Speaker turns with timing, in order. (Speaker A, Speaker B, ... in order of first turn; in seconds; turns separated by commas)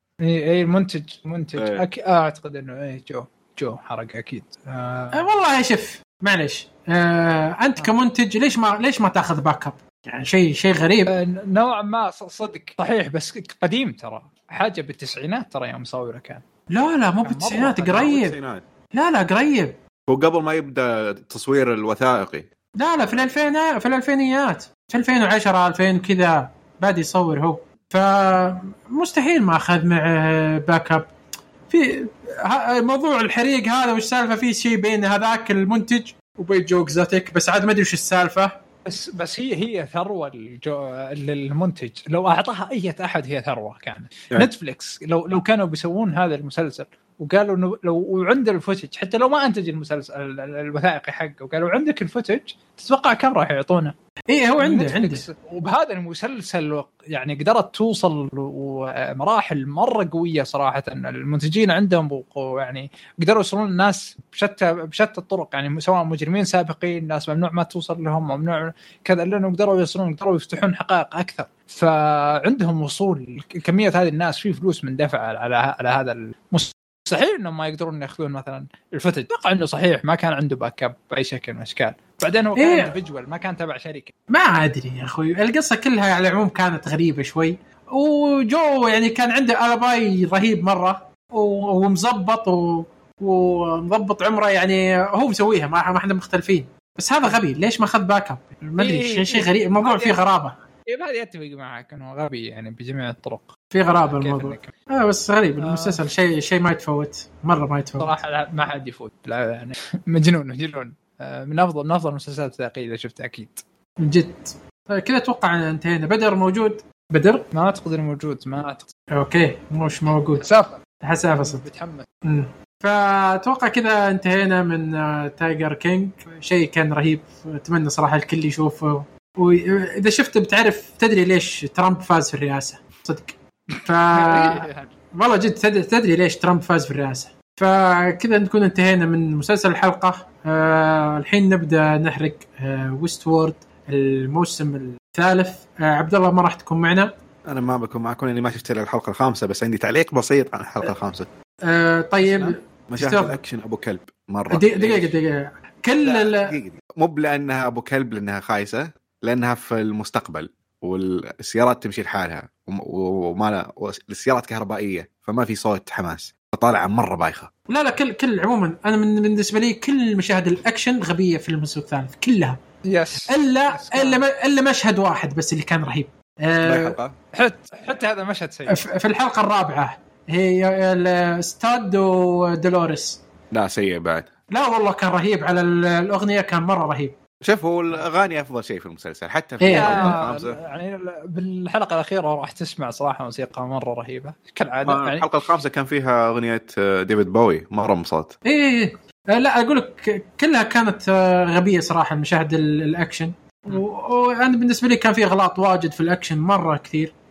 Speaker A: 0.2-5.3, Speaker B: 1.6-1.9, Speaker C: 5.1-11.1, Speaker A: 11.1-16.4, Speaker C: 16.7-18.4, Speaker A: 17.2-18.1, Speaker B: 17.9-18.6, Speaker C: 18.9-19.7, Speaker B: 20.1-22.5, Speaker C: 22.8-31.1, Speaker C: 31.7-38.5, Speaker A: 38.9-53.9, Speaker C: 54.3-55.2, Speaker A: 54.6-84.1, Speaker C: 82.6-82.9, Speaker C: 84.3-100.6, Speaker A: 98.8-100.2, Speaker A: 100.9-103.5, Speaker C: 103.7-108.2, Speaker A: 104.1-104.7, Speaker A: 105.6-106.0, Speaker A: 108.0-113.6, Speaker C: 114.0-117.4, Speaker A: 117.5-118.9, Speaker C: 119.1-120.5, Speaker A: 120.4-120.8, Speaker C: 121.0-121.6, Speaker A: 121.3-122.1, Speaker C: 122.2-147.1, Speaker A: 134.1-134.9, Speaker B: 147.5-151.3, Speaker C: 151.7-153.4, Speaker B: 152.2-155.1, Speaker C: 154.5-156.6, Speaker B: 156.0-167.5, Speaker C: 167.7-172.6, Speaker A: 172.9-174.2, Speaker C: 173.2-177.0, Speaker B: 176.6-177.1, Speaker A: 177.3-178.8, Speaker C: 178.7-183.2, Speaker B: 183.5-184.3, Speaker C: 184.5-187.1, Speaker B: 187.4-190.6, Speaker C: 189.6-190.2, Speaker A: 189.7-195.4, Speaker B: 194.8-198.3, Speaker C: 198.4-207.1